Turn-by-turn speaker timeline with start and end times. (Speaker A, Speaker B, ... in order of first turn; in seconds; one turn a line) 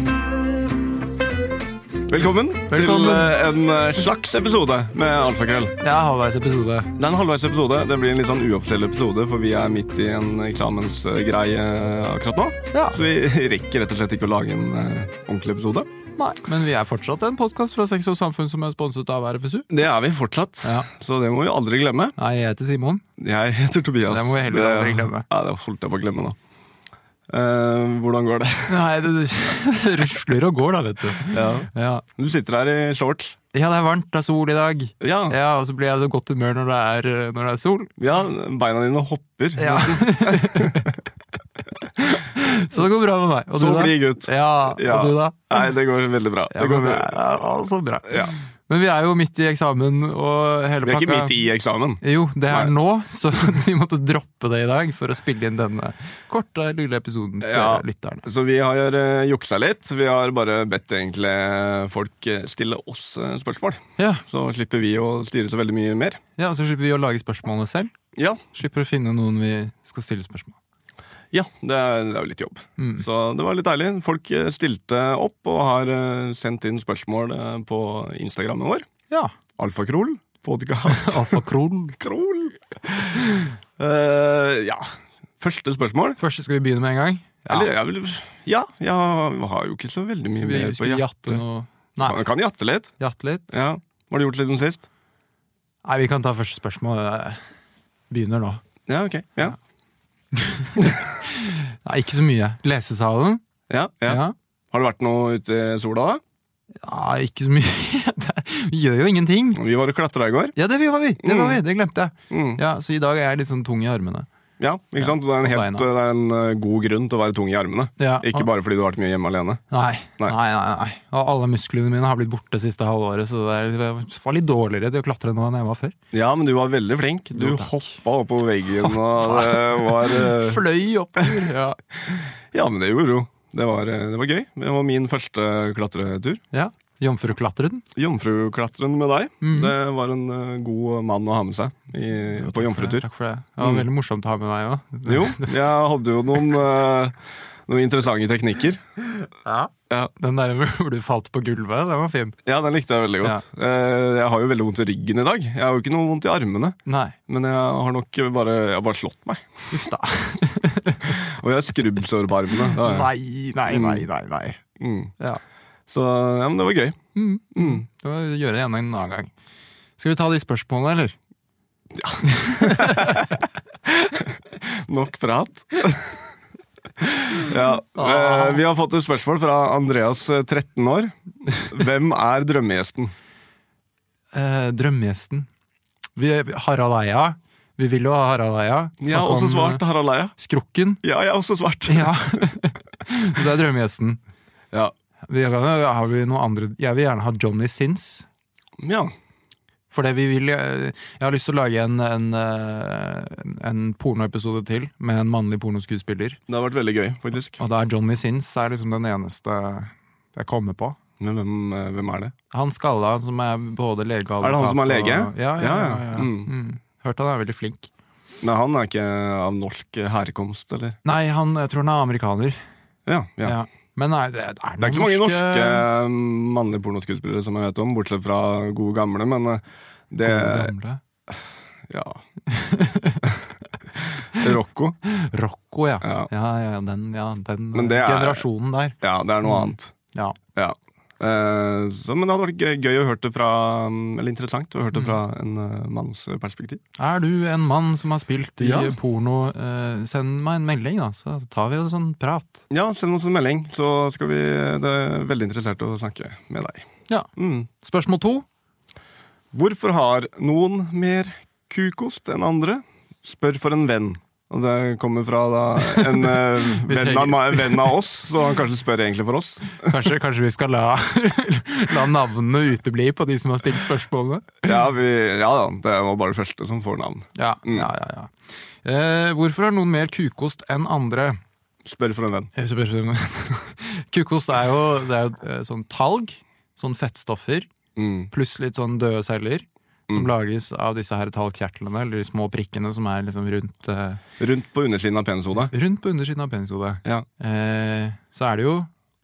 Speaker A: 2.1-5.8
Speaker B: 2.7-3.3
Speaker B: 5.8-6.9
Speaker A: 7.0-15.9
Speaker B: 12.7-13.0
Speaker B: 16.2-19.7
Speaker A: 19.7-22.1
Speaker B: 20.6-20.9
Speaker B: 22.2-23.0
Speaker A: 23.2-26.4
Speaker B: 24.1-25.2
Speaker A: 27.3-28.9
Speaker B: 28.7-32.0
Speaker A: 31.3-33.4
Speaker B: 33.5-37.9
Speaker A: 35.0-35.4
Speaker A: 38.0-41.0
Speaker B: 39.6-40.9
Speaker B: 42.0-45.7
Speaker A: 43.5-47.1
Speaker B: 46.5-51.3
Speaker A: 50.8-52.7
Speaker B: 52.0-58.2
Speaker A: 57.4-66.2
Speaker B: 64.0-64.2
Speaker B: 66.4-67.9
Speaker A: 68.2-68.4
Speaker B: 68.5-70.6
Speaker A: 71.3-78.9
Speaker B: 72.8-73.0
Speaker A: 79.5-81.4
Speaker B: 80.8-82.0
Speaker A: 82.0-86.2
Speaker B: 86.2-87.7
Speaker A: 87.5-91.4
Speaker B: 90.3-92.2
Speaker A: 92.0-92.9
Speaker B: 93.0-93.5
Speaker A: 93.5-94.9
Speaker B: 95.8-97.4
Speaker B: 98.1-98.6
Speaker A: 98.9-99.5
Speaker B: 100.3-103.4
Speaker A: 103.7-106.2
Speaker B: 104.0-104.3
Speaker B: 106.8-109.6
Speaker A: 109.5-110.5
Speaker B: 110.5-114.3
Speaker A: 111.2-111.6
Speaker A: 112.3-112.6
Speaker A: 114.6-119.6
Speaker B: 115.0-115.8
Speaker B: 118.0-118.5
Speaker B: 119.7-125.9
Speaker A: 126.1-130.6
Speaker B: 127.3-128.0
Speaker B: 128.8-131.8
Speaker A: 131.2-131.5
Speaker A: 132.1-136.4
Speaker B: 136.5-137.8
Speaker A: 137.9-143.1
Speaker B: 139.4-139.7
Speaker B: 142.3-145.6
Speaker A: 143.6-143.8
Speaker A: 145.1-148.8
Speaker B: 149.4-152.3
Speaker A: 152.4-156.8
Speaker B: 156.8-157.2
Speaker A: 157.3-159.9
Speaker B: 159.7-161.2
Speaker A: 161.1-163.1
Speaker B: 162.7-164.6
Speaker A: 163.7-164.1
Speaker A: 164.8-165.1
Speaker A: 165.9-167.0
Speaker B: 167.1-169.3
Speaker A: 167.6-167.8
Speaker B: 170.0-171.1
Speaker A: 171.9-173.4
Speaker B: 172.2-173.3
Speaker A: 174.0-176.3
Speaker A: 177.0-183.1
Speaker B: 177.9-178.6
Speaker B: 184.3-185.5
Speaker B: 186.2-189.8
Speaker A: 189.0-190.3
Speaker B: 190.4-191.0
Speaker A: 191.0-192.5
Speaker B: 191.9-194.2
Speaker B: 195.3-198.2
Speaker A: 198.8-199.1
Speaker B: 199.9-206.4
Speaker A: 206.5-207.6
Speaker B: 207.6-211.0
Speaker A: 211.2-212.3
Speaker B: 212.5-217.9
Speaker A: 214.4-216.5
Speaker A: 218.4-221.0
Speaker B: 221.0-222.6
Speaker A: 223.1-223.6
Speaker B: 223.4-225.9
Speaker A: 224.8-230.7
Speaker B: 230.2-231.0
Speaker A: 231.9-232.2
Speaker B: 232.5-233.3
Speaker A: 234.0-235.0
Speaker B: 235.1-240.4
Speaker A: 236.0-236.3
Speaker A: 237.7-238.4
Speaker A: 239.0-239.9
Speaker A: 240.5-246.8
Speaker B: 247.0-252.6
Speaker A: 248.6-248.9
Speaker A: 252.7-257.7
Speaker B: 257.1-258.4
Speaker A: 259.5-269.9
Speaker B: 265.9-267.9
Speaker B: 269.8-274.6
Speaker A: 274.6-277.9
Speaker B: 277.4-278.3
Speaker B: 278.8-281.4
Speaker A: 281.8-282.5
Speaker B: 282.5-287.7
Speaker A: 287.9-288.3
Speaker B: 288.3-294.2
Speaker A: 294.4-295.7
Speaker B: 295.5-298.9